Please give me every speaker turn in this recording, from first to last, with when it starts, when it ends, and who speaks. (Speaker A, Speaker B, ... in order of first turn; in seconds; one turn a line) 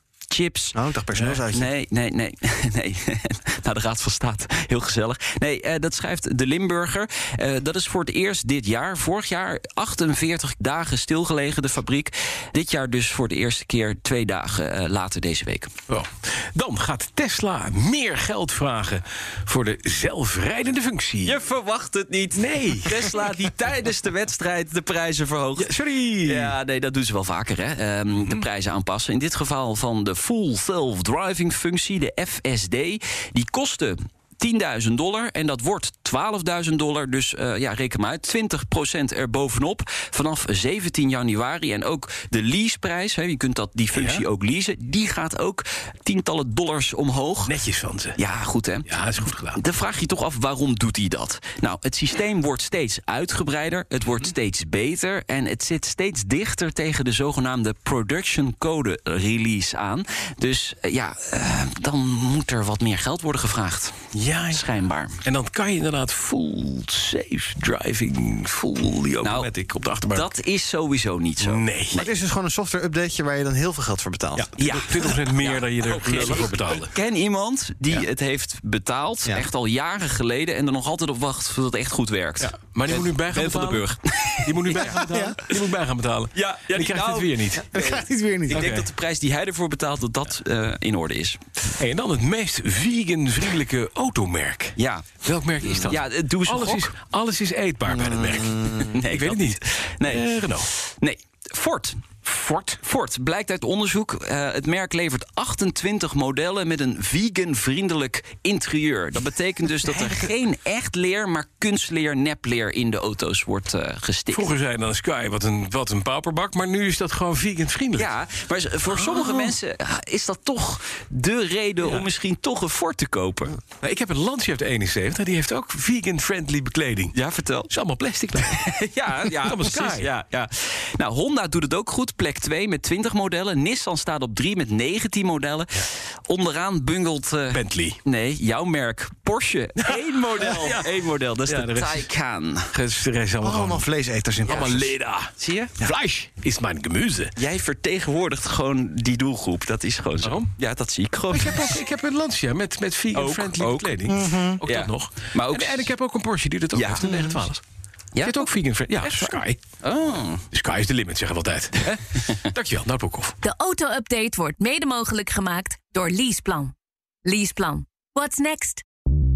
Speaker A: 0.3-0.8
Speaker B: 0.7-1.7
Speaker A: 1.5-15.7
Speaker C: 15.9-21.4
Speaker A: 21.2-25.7
Speaker C: 22.3-23.1
Speaker C: 25.6-26.6
Speaker A: 26.2-47.5
Speaker C: 43.9-44.2
Speaker C: 47.4-48.2
Speaker A: 48.2-48.9
Speaker C: 48.9-49.6
Speaker A: 49.5-64.0
Speaker C: 64.1-64.7
Speaker A: 64.5-65.2
Speaker C: 65.2-70.3
Speaker A: 69.2-69.5
Speaker A: 70.1-72.1
Speaker C: 71.4-72.0
Speaker B: 72.0-74.5
Speaker C: 74.3-76.9
Speaker A: 74.6-85.6
Speaker C: 82.4-87.7
Speaker B: 84.9-85.4
Speaker A: 86.3-91.4
Speaker B: 87.7-88.7
Speaker C: 88.5-88.9
Speaker C: 91.8-100.7
Speaker A: 94.8-95.1
Speaker A: 95.8-96.9
Speaker A: 98.8-114.5
Speaker C: 114.3-118.1
Speaker A: 118.0-123.6
Speaker C: 118.9-119.5
Speaker C: 123.7-127.2
Speaker A: 127.1-127.7
Speaker C: 127.7-128.6
Speaker A: 128.4-142.7
Speaker C: 129.3-130.1
Speaker C: 137.5-138.0
Speaker C: 139.8-142.1
Speaker C: 142.7-143.9
Speaker B: 143.4-144.9
Speaker A: 144.4-144.8
Speaker C: 144.4-147.3
Speaker A: 145.4-145.9
Speaker A: 147.4-151.8
Speaker C: 150.2-150.5
Speaker C: 151.3-157.6
Speaker A: 153.1-154.1
Speaker B: 154.1-154.6
Speaker A: 154.6-155.9
Speaker A: 156.7-157.3
Speaker A: 158.1-160.4
Speaker C: 158.2-159.6
Speaker C: 160.5-163.3
Speaker A: 161.9-162.3
Speaker D: 163.4-166.7
Speaker D: 167.2-168.8